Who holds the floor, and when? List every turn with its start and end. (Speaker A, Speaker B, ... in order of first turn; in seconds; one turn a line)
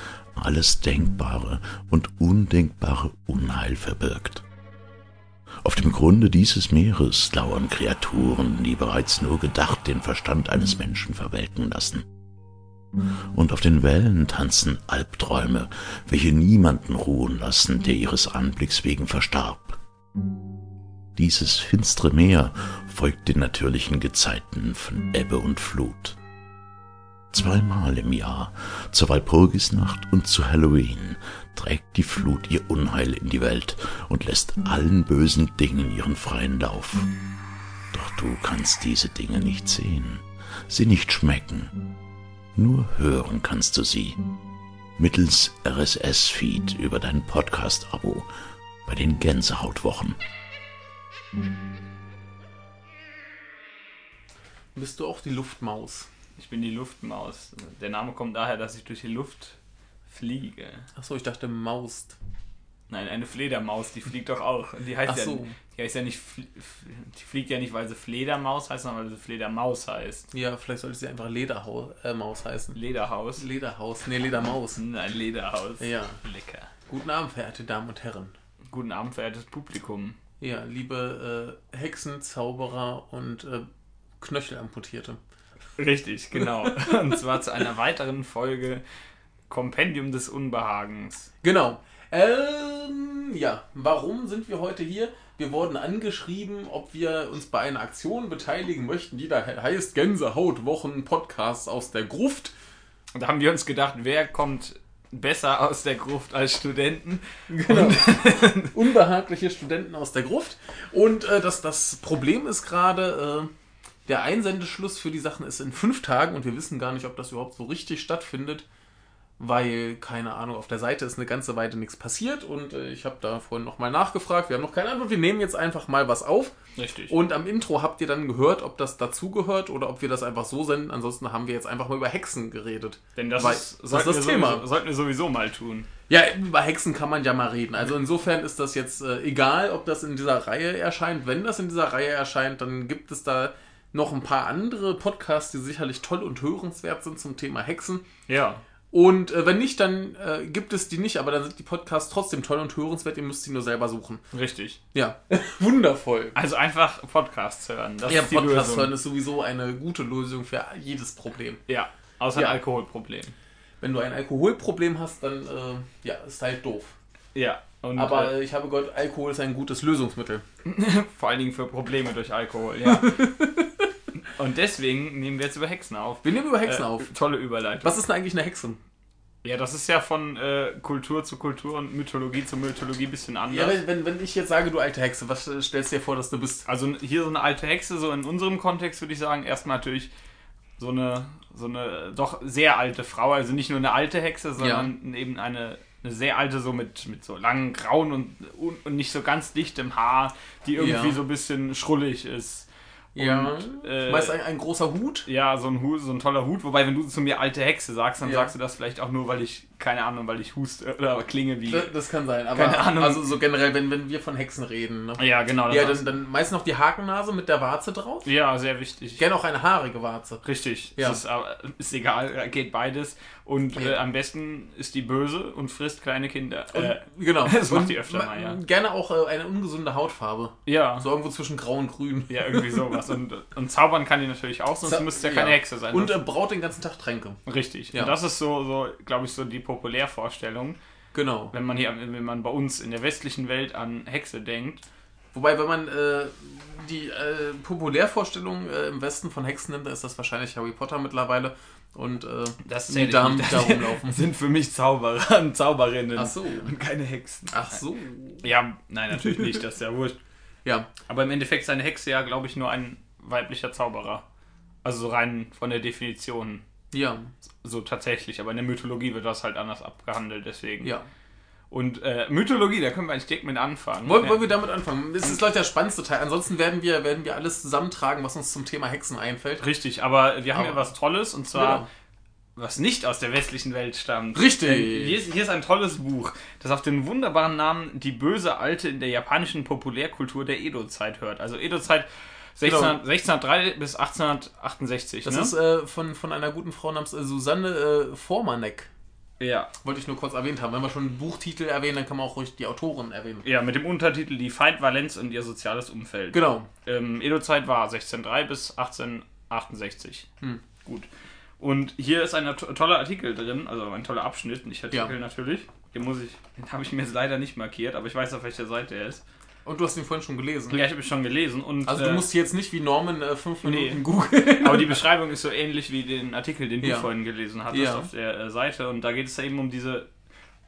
Speaker A: 0.3-4.4
Speaker A: 5.6-12.1
Speaker A: 13.3-19.8
Speaker A: 21.2-26.2
Speaker A: 27.3-37.1
Speaker A: 37.9-41.7
Speaker A: 42.5-44.2
Speaker A: 45.0-48.3
Speaker A: 48.9-50.2
Speaker B: 54.8-56.1
Speaker C: 56.4-59.6
Speaker C: 60.1-60.9
Speaker B: 61.0-62.2
Speaker C: 62.9-70.3
Speaker B: 65.1-65.6
Speaker B: 70.3-72.8
Speaker C: 72.8-73.5
Speaker B: 73.4-74.8
Speaker C: 74.8-76.7
Speaker B: 75.8-76.2
Speaker B: 76.9-78.3
Speaker C: 78.7-80.2
Speaker B: 80.4-83.7
Speaker B: 84.2-85.2
Speaker C: 85.8-88.8
Speaker B: 86.3-87.2
Speaker C: 89.5-91.3
Speaker B: 91.4-102.5
Speaker C: 103.1-108.8
Speaker B: 107.5-113.5
Speaker B: 114.1-118.7
Speaker B: 119.4-126.5
Speaker C: 126.8-127.2
Speaker B: 127.1-134.7
Speaker C: 133.2-135.9
Speaker B: 136.1-148.0
Speaker C: 148.3-148.6
Speaker B: 148.9-154.2
Speaker C: 154.3-154.8
Speaker B: 154.9-156.3
Speaker C: 156.3-158.9
Speaker B: 158.1-161.6
Speaker C: 161.7-163.3
Speaker B: 162.3-162.6
Speaker B: 163.8-167.0
Speaker C: 167.3-168.3
Speaker B: 168.0-170.4
Speaker C: 170.7-173.2
Speaker B: 172.8-173.9
Speaker C: 174.2-178.0
Speaker B: 176.2-177.1
Speaker B: 177.8-178.8
Speaker C: 179.4-183.8
Speaker B: 183.5-186.7
Speaker C: 186.7-190.1
Speaker C: 190.8-204.3
Speaker B: 194.6-194.9
Speaker B: 200.8-201.2
Speaker B: 203.2-205.3
Speaker C: 205.3-211.9
Speaker B: 208.2-208.5
Speaker B: 211.7-218.3
Speaker C: 212.5-213.2
Speaker C: 215.2-216.0
Speaker C: 218.2-219.2
Speaker B: 219.2-220.4
Speaker C: 220.4-228.6
Speaker B: 221.0-221.2
Speaker B: 226.7-233.1
Speaker C: 230.7-231.1
Speaker C: 232.3-236.1
Speaker B: 234.8-237.4
Speaker C: 237.5-240.8
Speaker B: 241.1-241.5
Speaker C: 241.5-244.8
Speaker B: 245.3-254.3
Speaker C: 252.7-257.8
Speaker B: 256.1-256.7
Speaker B: 257.5-258.4
Speaker C: 258.4-260.2
Speaker B: 259.1-259.6
Speaker C: 261.1-264.2
Speaker C: 264.8-266.6
Speaker B: 266.9-267.3
Speaker C: 267.6-270.9
Speaker C: 271.7-274.4
Speaker B: 274.0-279.6
Speaker C: 279.6-281.8
Speaker B: 280.5-280.8
Speaker B: 281.5-281.9
Speaker C: 282.6-295.5
Speaker B: 284.3-285.2
Speaker B: 292.6-293.0
Speaker B: 295.2-298.9
Speaker C: 299.4-299.7
Speaker B: 299.8-303.4
Speaker C: 303.4-310.3
Speaker B: 306.3-306.7
Speaker C: 311.6-319.2
Speaker B: 319.6-320.8
Speaker C: 320.7-322.2
Speaker B: 321.9-325.0
Speaker C: 323.6-330.1
Speaker B: 326.8-327.1
Speaker B: 327.7-328.1